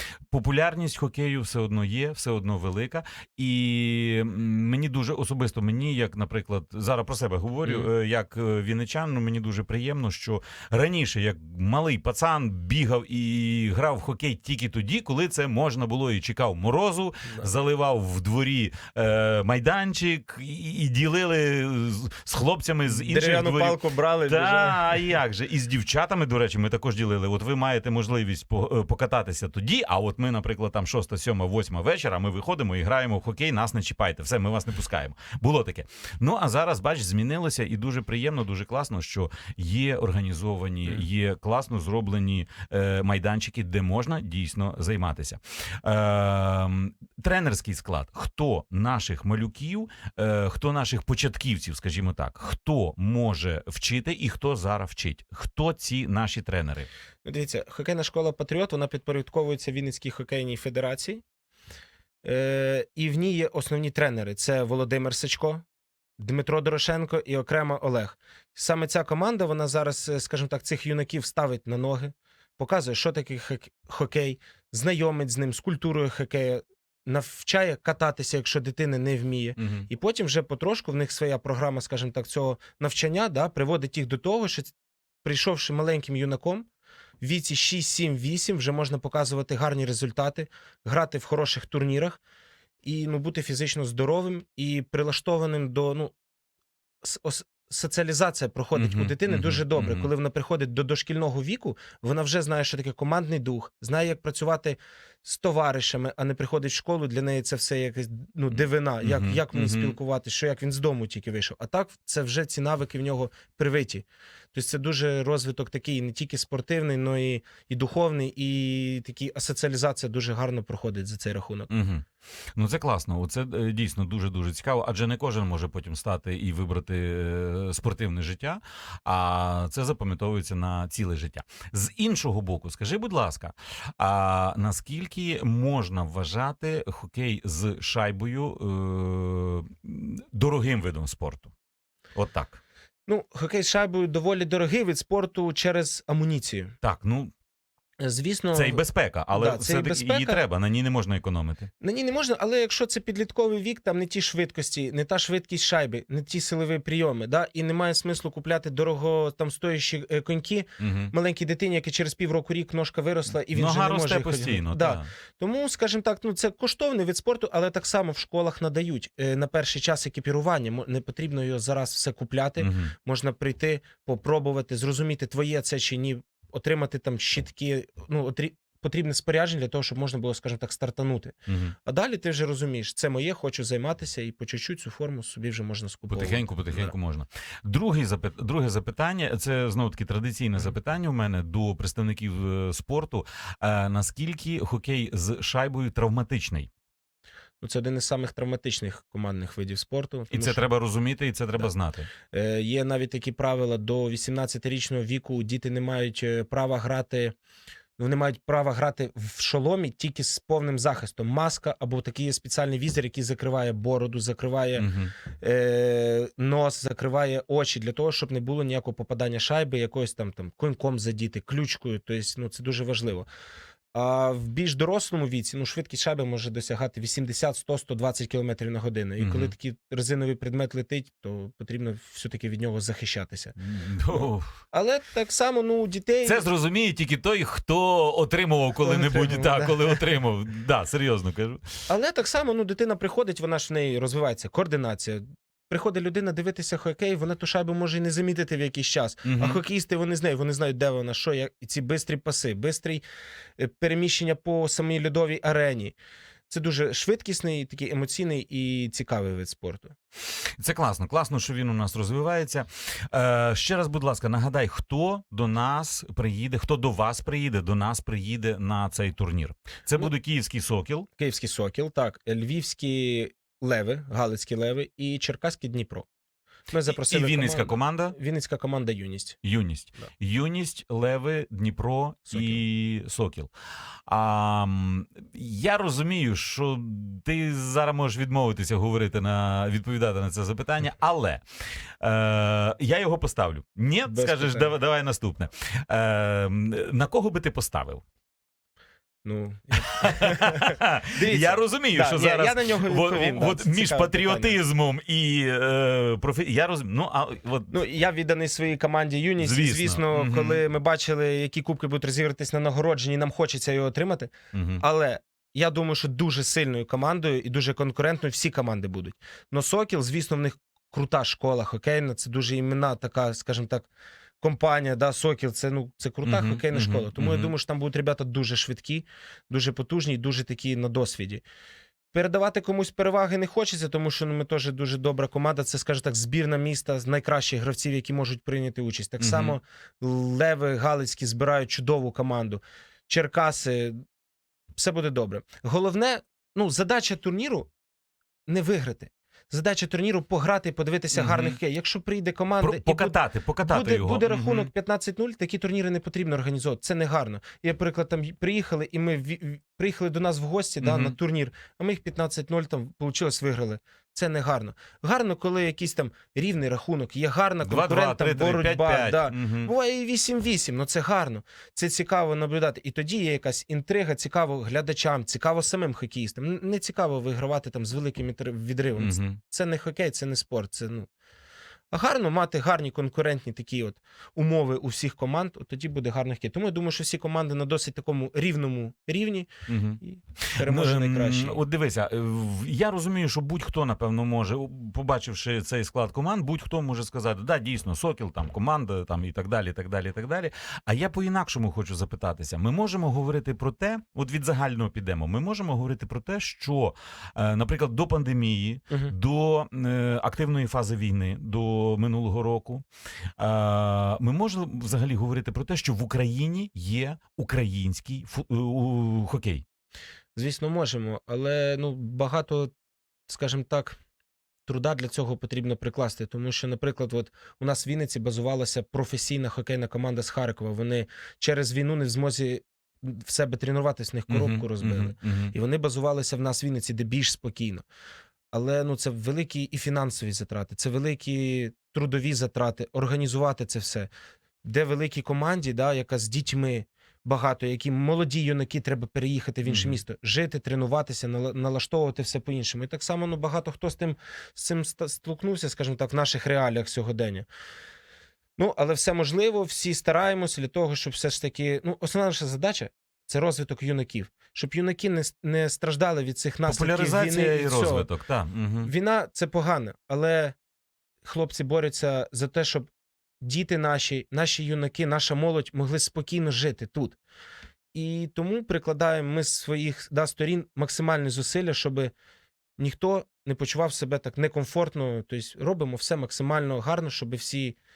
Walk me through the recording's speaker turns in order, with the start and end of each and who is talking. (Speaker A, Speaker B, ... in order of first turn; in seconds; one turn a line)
Speaker A: 0.3-56.9
Speaker B: 22.9-24.9
Speaker B: 57.2-61.2
Speaker B: 62.2-65.6
Speaker B: 66.2-84.7
Speaker A: 79.6-79.9
Speaker B: 85.2-86.7
Speaker B: 87.2-92.2
Speaker B: 92.8-96.1
Speaker B: 97.0-121.7
Speaker A: 98.8-100.1
Speaker A: 109.0-110.0
Speaker A: 121.7-141.5
Speaker A: 142.2-142.6
Speaker B: 143.1-146.7
Speaker A: 146.8-147.3
Speaker B: 148.0-150.4
Speaker A: 148.5-151.7
Speaker B: 151.8-186.9
Speaker A: 160.8-161.1
Speaker A: 163.5-165.1
Speaker A: 172.6-172.9
Speaker A: 181.5-181.8
Speaker A: 186.1-196.7
Speaker B: 197.6-200.7
Speaker A: 200.3-202.1
Speaker B: 202.3-207.3
Speaker B: 208.0-214.9
Speaker A: 214.8-215.1
Speaker B: 215.4-223.3
Speaker B: 223.9-233.6
Speaker A: 229.2-229.5
Speaker A: 233.6-234.5
Speaker B: 234.1-236.4
Speaker A: 236.2-241.7
Speaker B: 238.8-240.0
Speaker B: 241.9-253.0
Speaker A: 249.2-249.6
Speaker B: 253.6-256.0
Speaker B: 256.5-259.9
Speaker A: 260.6-271.1
Speaker B: 271.2-276.1
Speaker B: 276.7-279.4
Speaker A: 276.9-278.2
Speaker A: 279.4-283.5
Speaker B: 282.3-282.6
Speaker A: 284.1-291.4
Speaker A: 292.0-298.0
Speaker B: 294.1-294.7
Speaker B: 299.2-304.6
Speaker A: 299.7-307.7
Speaker B: 307.7-323.9
Speaker A: 309.4-310.6
Speaker A: 314.5-314.8
Speaker B: 324.4-331.4
Speaker A: 326.3-327.5
Speaker B: 332.1-344.0
Speaker A: 339.2-339.6
Speaker B: 344.8-347.7
Speaker B: 348.5-381.1
Speaker A: 351.1-351.6
Speaker A: 352.6-354.7
Speaker A: 360.8-361.2
Speaker A: 367.6-369.7
Speaker A: 379.0-379.4
Speaker B: 381.9-389.5
Speaker A: 389.7-412.8
Speaker B: 390.0-391.6
Speaker A: 413.4-419.6
Speaker B: 420.4-422.7
Speaker B: 423.3-424.0
Speaker B: 424.7-437.9
Speaker A: 434.3-435.5
Speaker B: 438.5-444.1
Speaker B: 444.6-457.5
Speaker A: 449.6-450.0
Speaker B: 458.6-468.1
Speaker A: 466.7-468.9
Speaker B: 468.8-470.6
Speaker B: 471.2-472.9
Speaker B: 473.4-477.2
Speaker B: 477.9-482.1
Speaker B: 482.8-487.8